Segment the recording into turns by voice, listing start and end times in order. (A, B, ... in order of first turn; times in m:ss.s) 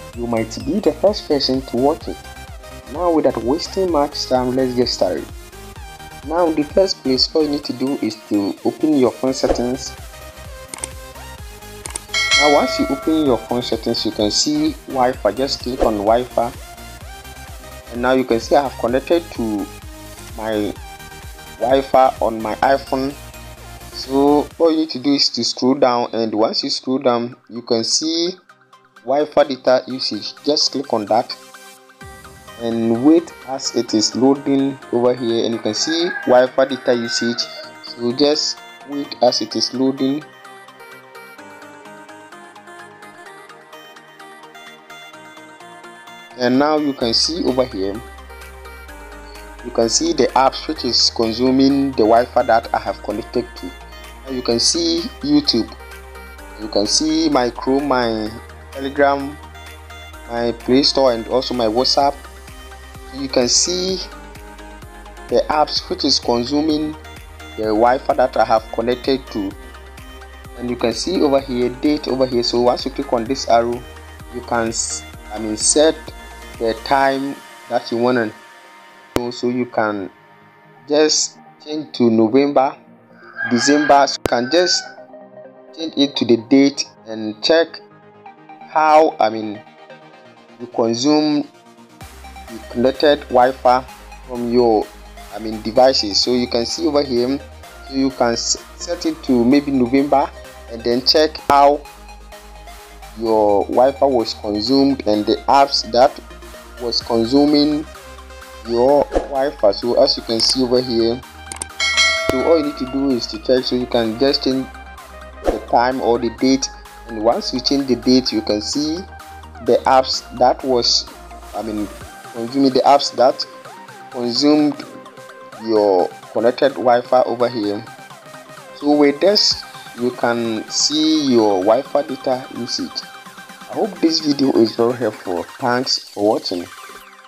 0:00.1-0:02.2 A
0:02.8-0:05.3 A
0:06.2-0:10.0 A
0:12.4-0:16.6 A
0:17.9-0:19.7 A
0:20.3-0:20.8 A
0:21.6-0:23.2 A
0:23.9-0:28.4 A
0:29.0-0:31.4 A
0:32.6-0:40.3 A
0:46.4-0:48.0 A
0:49.6-0:55.8 A
0:56.6-0:59.4 A
1:00.3-1:02.2 A
1:03.1-1:04.0 A
1:05.3-1:07.0 A
1:07.6-1:09.6 A
1:10.6-1:18.4 A
1:19.2-1:20.1 A
1:20.8-1:22.8 A
1:23.5-1:24.8 A
1:25.7-1:27.8 A
1:28.7-1:29.6 A
1:30.6-1:31.5 A
1:32.5-1:41.9 A
1:43.1-1:46.2 A
1:46.8-1:47.9 A
1:48.6-1:51.2 A
1:52.3-1:54.7 A
1:55.5-1:59.1 A
1:59.6-2:03.4 A
2:04.1-2:04.8 A
2:05.6-2:07.8 A
2:08.8-2:13.0 A
2:13.7-2:16.7 A